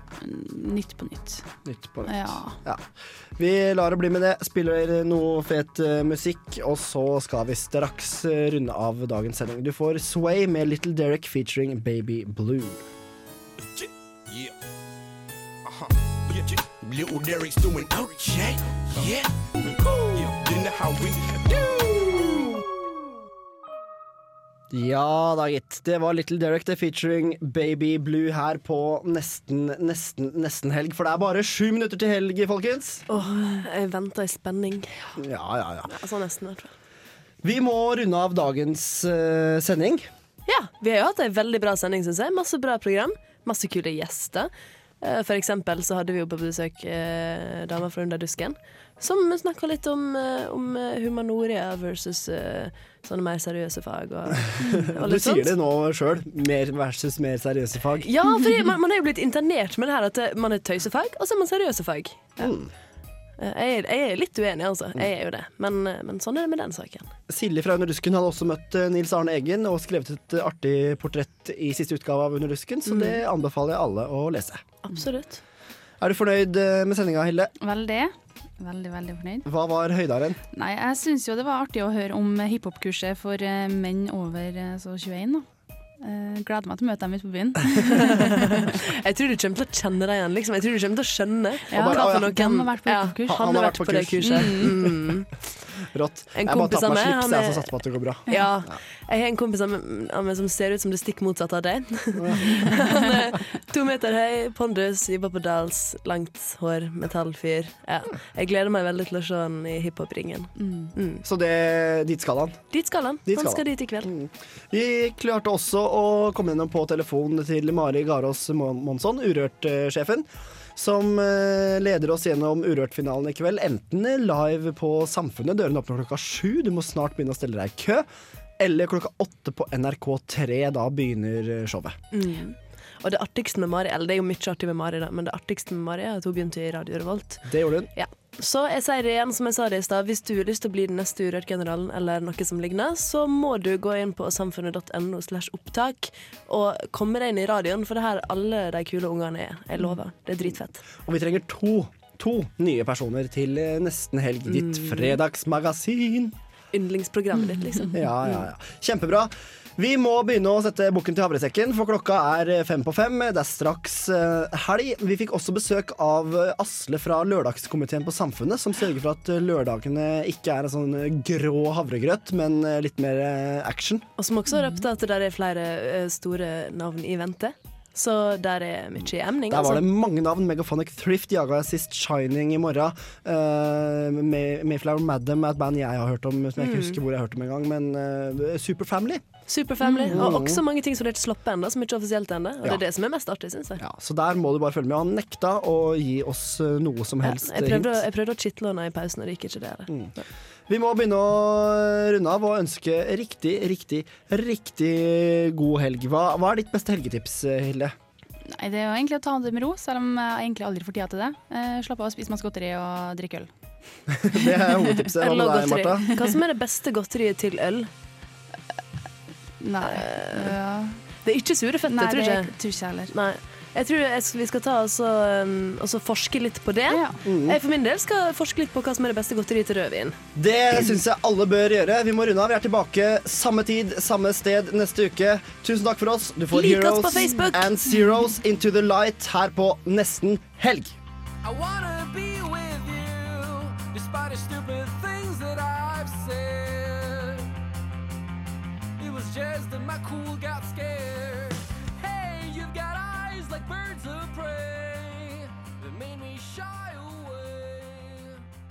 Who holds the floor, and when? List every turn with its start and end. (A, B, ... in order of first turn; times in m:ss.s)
0:00.2-0:01.5 A
0:01.7-0:02.8 B
0:02.1-0:02.6 A
0:03.4-0:12.9 B
0:16.3-0:19.3 C
0:20.1-0:22.0 C
0:24.7-0:33.1 B
0:33.1-0:35.2 D
0:35.2-0:35.9 B
0:35.9-0:36.7 D
0:37.4-0:40.1 B
0:40.5-0:55.5 D
0:55.0-0:58.1 B
0:58.0-1:02.4 D
1:02.4-1:02.7 B
1:03.4-1:07.1 D
1:07.3-1:14.6 B
1:12.9-1:13.2 D
1:14.8-1:15.4 D
1:16.0-1:17.5 B
1:17.6-1:19.5 A
1:19.5-1:20.4 B
1:20.5-1:25.5 A
1:26.0-1:28.7 A
1:29.0-1:35.3 D
1:31.7-1:34.8 A
1:31.7-1:32.3 B
1:33.3-1:34.8 B
1:35.9-1:38.8 B
1:36.3-1:51.2 D
1:42.2-1:42.7 B
1:50.6-1:50.9 A
1:51.2-1:52.6 B
1:52.7-1:54.1 D
1:53.3-2:08.1 B
2:08.6-2:12.0 B
2:12.1-2:30.8 D
2:17.5-2:17.9 B
2:31.0-2:36.4 B
2:34.5-2:35.2 D
2:36.7-2:38.3 D
2:37.9-2:54.1 B
2:54.2-2:59.9 D
2:54.6-2:54.8 A
2:59.5-3:09.2 B
3:06.6-3:07.0 D
3:09.5-3:13.8 D
3:09.8-3:10.2 A
3:10.1-3:10.6 B
3:13.8-3:18.0 B
3:17.2-3:19.9 D
3:20.7-3:27.9 B
3:28.5-3:33.5 A
3:34.1-3:36.1 B
3:35.2-3:37.9 D
3:39.6-3:41.0 A
3:39.8-3:40.6 D
3:41.2-3:42.5 D
3:41.9-3:43.1 A
3:43.1-3:50.2 D
3:46.9-3:47.2 A
3:47.2-3:47.6 B
3:50.4-4:01.0 B
3:56.5-3:57.7 D
4:01.4-4:07.5 E
4:09.0-4:18.4 E